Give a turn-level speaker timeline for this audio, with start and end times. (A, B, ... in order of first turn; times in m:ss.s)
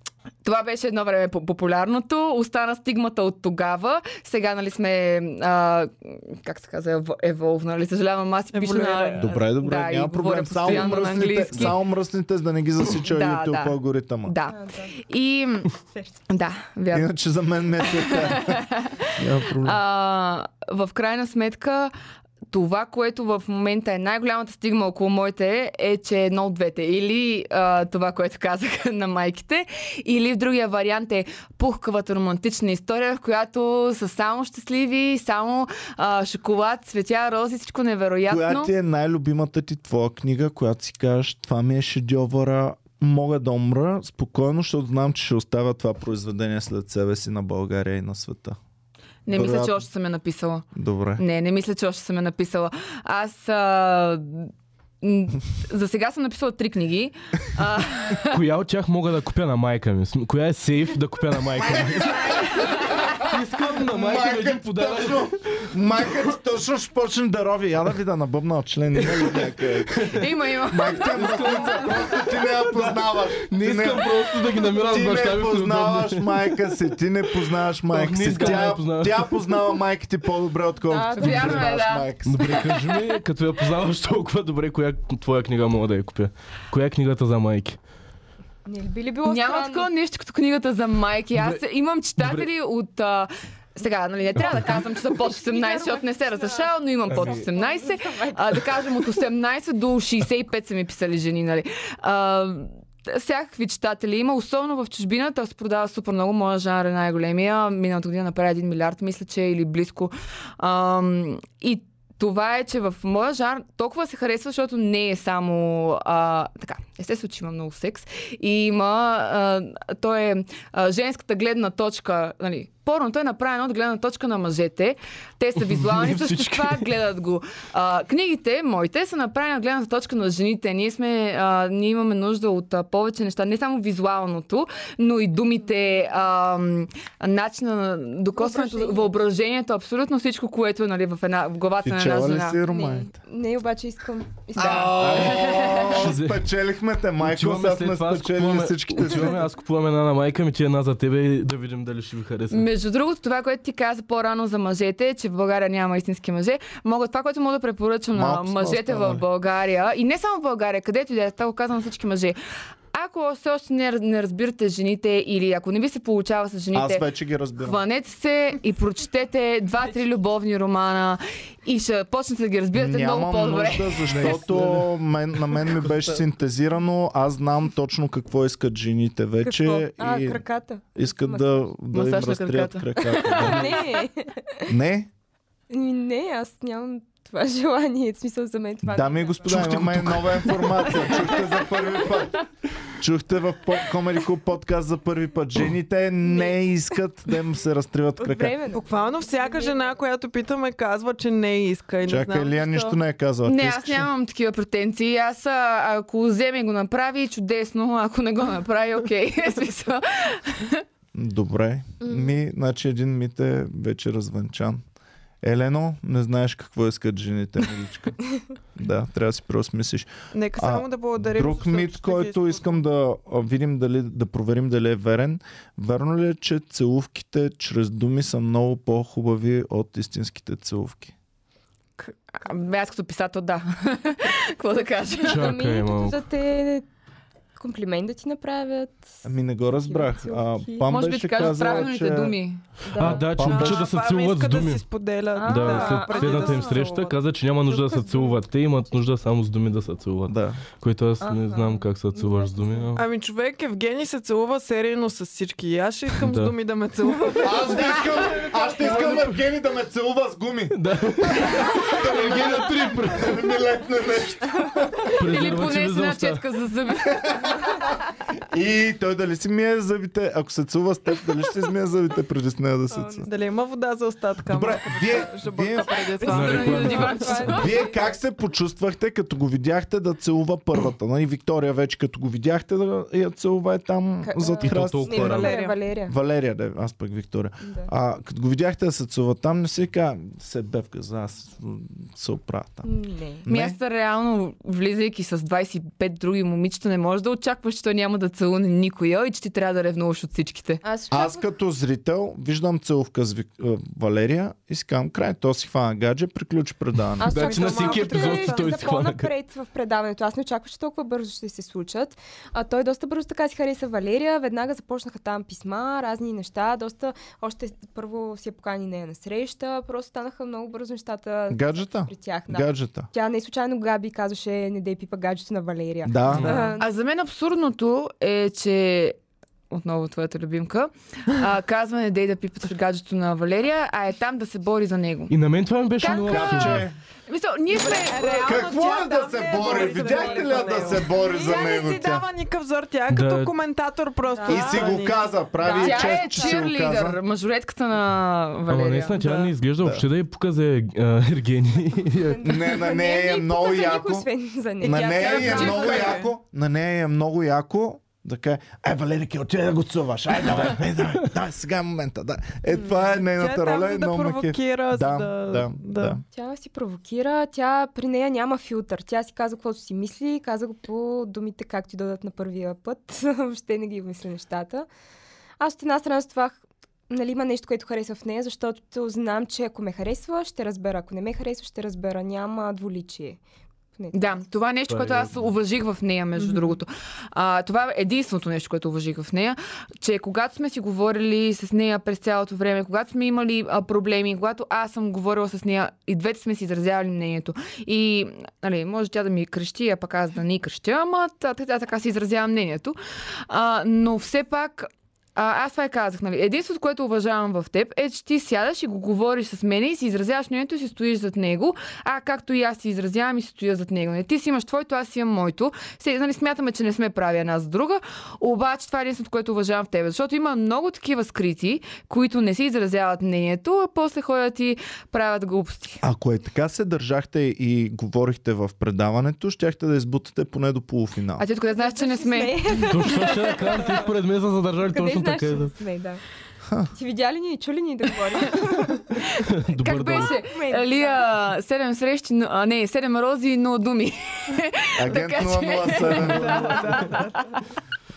0:00.4-0:11.8 A
0:08.5-0:09.4 B
0:09.2-0:14.3 C
0:13.0-0:15.7 A
0:14.5-0:15.0 D
0:16.3-0:17.1 A
0:16.9-0:19.8 C
0:17.8-0:21.9 A
0:22.5-0:38.7 A
0:38.3-0:48.6 C
0:49.3-0:50.7 A
0:49.3-0:49.8 C
0:50.8-0:51.2 C
0:51.2-0:58.4 A
0:58.3-1:02.3 E
1:01.6-1:14.1 C
1:03.2-1:05.3 E
1:09.0-1:10.2 E
1:10.1-1:11.8 A
1:11.0-1:16.8 E
1:14.8-1:22.7 C
1:17.9-1:19.8 E
1:20.9-1:21.8 D
1:21.1-1:23.0 A
1:22.2-1:27.8 E
1:28.7-1:29.9 D
1:29.2-2:22.6 A
1:31.4-1:31.6 E
1:32.2-1:32.5 E
1:34.4-1:38.7 D
1:34.4-1:34.7 E
1:37.1-1:37.4 E
2:05.8-2:06.9 E
2:18.4-2:19.1 D
2:21.8-2:23.1 C
2:22.7-2:25.2 D
2:24.6-2:26.0 A
2:24.6-2:29.4 C
2:25.1-2:26.5 E
2:27.2-2:32.7 E
2:32.5-2:42.4 A
2:38.1-2:39.2 C
2:42.9-2:47.1 A
2:46.7-2:47.8 C
2:47.6-2:54.4 A
2:52.7-3:00.4 C
2:54.1-2:54.9 E
2:55.5-2:56.2 E
2:59.4-3:01.7 D
3:01.0-3:03.8 C
3:01.9-3:04.0 A
3:03.1-3:04.6 D
3:04.7-3:05.1 C
3:05.7-3:10.2 D
3:08.8-3:18.6 C
3:09.8-3:10.2 E
3:10.8-3:12.0 D
3:18.2-3:19.9 D
3:18.7-3:23.0 B
3:22.1-3:24.1 C
3:23.5-3:30.8 A
3:31.1-3:34.8 C
3:32.0-3:32.3 D
3:35.4-3:38.2 C
3:38.8-3:51.1 C
3:40.3-3:42.8 B
3:52.0-3:55.5 A
3:55.2-3:56.2 E
3:55.3-3:56.8 D
3:57.6-4:00.9 D
3:59.2-4:02.4 C
4:00.9-4:02.6 A
4:01.5-4:01.9 D
4:02.9-4:03.4 D
4:02.9-4:04.8 E
4:03.0-4:03.8 C
4:03.4-4:07.2 B
4:05.4-4:06.9 D
4:05.4-4:13.0 E
4:07.7-4:08.4 D
4:10.3-4:10.6 C
4:11.2-4:12.9 D
4:13.0-4:19.2 B
4:16.2-4:16.5 E
4:17.4-4:25.1 C
4:18.8-4:19.4 E
4:20.7-4:23.6 E
4:25.2-4:26.4 E
4:25.2-4:27.6 A
4:27.2-4:27.9 C
4:28.5-4:33.3 C
4:32.9-4:33.3 D
4:33.2-4:37.5 B
4:34.5-4:36.1 C
4:36.2-4:38.2 D
4:36.3-4:37.9 A
4:36.3-4:37.7 E
4:37.5-4:45.5 C
4:44.2-4:46.1 D
4:44.6-4:45.6 E
4:45.2-4:45.8 B
4:46.1-4:52.9 C
4:47.6-4:47.9 D
4:52.8-4:53.4 D
4:53.4-4:53.8 C
4:53.5-5:00.8 A
5:00.8-5:01.4 D
5:01.1-5:07.4 C
5:07.2-5:26.9 D
5:07.3-5:09.3 E
5:07.3-5:08.9 B
5:21.5-5:23.1 C
5:26.0-5:26.8 C
5:26.3-5:26.6 E
5:26.8-5:29.2 A
5:29.7-5:35.3 A
5:35.3-5:36.9 E
5:36.0-5:38.7 A
5:36.3-5:37.0 C
5:37.7-5:46.1 B
5:38.4-5:42.3 C
5:39.6-5:40.9 D
5:43.1-5:43.5 E
5:44.3-5:44.9 D
5:44.5-5:47.2 C
5:45.7-5:49.5 A
5:45.7-5:46.6 D
5:48.7-5:52.5 E
5:49.8-5:50.1 C
5:52.2-5:56.1 D
5:52.4-5:54.3 C
5:54.8-6:06.2 C
5:55.2-5:56.3 B
5:55.2-5:56.1 A
6:02.7-6:06.2 B
6:06.3-6:14.9 D
6:15.6-6:23.4 D
6:24.0-6:24.4 D
6:24.1-6:43.0 A
6:24.9-6:25.5 E
6:43.5-7:06.0 A
7:06.0-7:11.4 C
7:11.4-7:13.0 A
7:11.8-7:14.1 D
7:12.7-7:15.8 E
7:14.8-7:16.2 D
7:16.7-7:16.9 C
7:16.9-7:19.3 D
7:19.2-7:27.6 A
7:19.4-7:20.3 E
7:20.1-7:21.3 D
7:25.0-7:26.9 C
7:26.2-7:27.5 B